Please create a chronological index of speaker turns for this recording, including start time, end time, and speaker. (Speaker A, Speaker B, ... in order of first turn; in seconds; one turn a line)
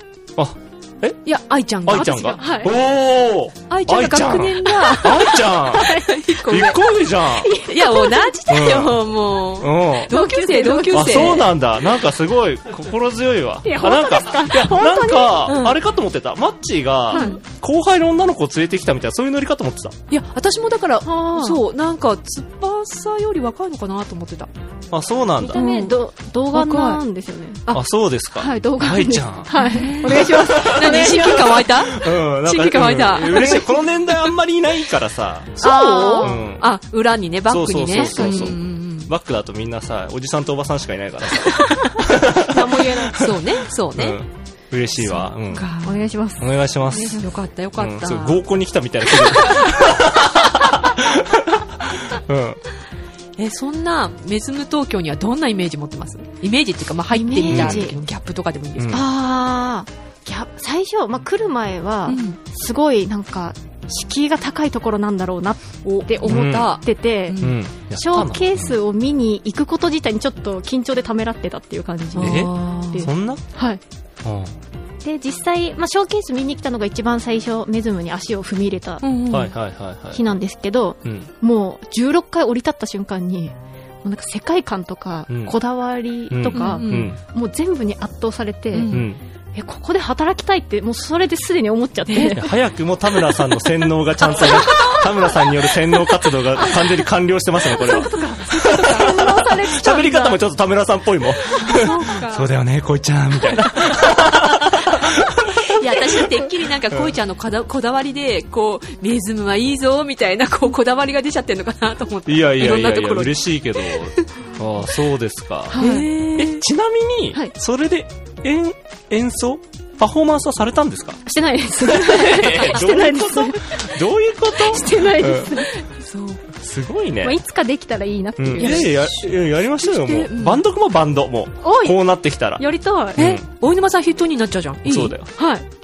Speaker A: 0.3-1.2
Speaker B: 1.2-2.5
Speaker A: 1.8-7.5
Speaker C: 2.4-2.7
Speaker B: 3.7-6.9
Speaker C: 5.7-6.0
Speaker C: 7.4-8.3
Speaker B: 7.6-11.5
Speaker A: 8.5-10.1
Speaker C: 10.1-11.4
Speaker A: 10.9-20.0
Speaker C: 13.6-15.5
Speaker B: 15.4-15.8
Speaker B: 17.1-17.4
Speaker B: 20.1-24.5
Speaker C: 21.1-21.6
Speaker A: 24.9-25.6
Speaker C: 25.4-27.6
Speaker B: 25.5-25.9
Speaker B: 26.5-27.0
Speaker A: 27.7-35.6
Speaker C: 28.4-31.6
Speaker B: 29.5-34.3
Speaker B: 35.6-39.1
Speaker C: 35.6-36.4
Speaker A: 36.2-36.7
Speaker A: 37.5-45.7
Speaker C: 38.0-38.5
Speaker B: 41.5-41.8
Speaker C: 42.5-43.1
Speaker B: 43.1-44.2
Speaker B: 45.0-46.1
Speaker C: 45.8-46.4
Speaker A: 46.4-52.6
Speaker B: 46.9-48.4
Speaker B: 53.4-59.0
Speaker C: 57.1-57.9
Speaker A: 57.5-57.9
Speaker A: 58.8-59.0
Speaker C: 58.9-67.3
Speaker B: 62.1-62.4
Speaker B: 65.8-67.6
Speaker A: 66.2-66.8
Speaker A: 67.4-68.8
Speaker C: 67.9-73.8
Speaker B: 72.2-73.1
Speaker A: 72.2-73.4
Speaker A: 74.2-74.5
Speaker C: 75.0-79.0
Speaker B: 79.0-79.5
Speaker A: 79.3-80.2
Speaker C: 80.1-83.5
Speaker A: 81.0-81.3
Speaker C: 84.0-88.9
Speaker A: 85.3-85.5
Speaker A: 86.3-87.2
Speaker B: 86.5-87.1
Speaker B: 88.7-89.1
Speaker A: 88.9-89.2
Speaker C: 89.5-92.5
Speaker B: 92.1-92.4
Speaker A: 92.3-106.2
Speaker B: 94.4-95.0
Speaker B: 97.8-99.2
Speaker C: 97.9-100.4
Speaker B: 101.5-102.5
Speaker B: 105.6-114.3
Speaker A: 112.2-121.2
Speaker C: 115.7-116.0
Speaker B: 115.7-116.6
Speaker C: 121.3-123.9
Speaker A: 121.8-125.7
Speaker B: 122.4-122.8
Speaker C: 124.7-125.7
Speaker B: 125.7-126.5
Speaker A: 126.5-127.4
Speaker C: 127.2-128.8
Speaker A: 128.4-133.4
Speaker B: 128.6-130.6
Speaker C: 131.6-132.0
Speaker C: 132.6-133.2
Speaker B: 133.2-135.2
Speaker A: 134.8-135.3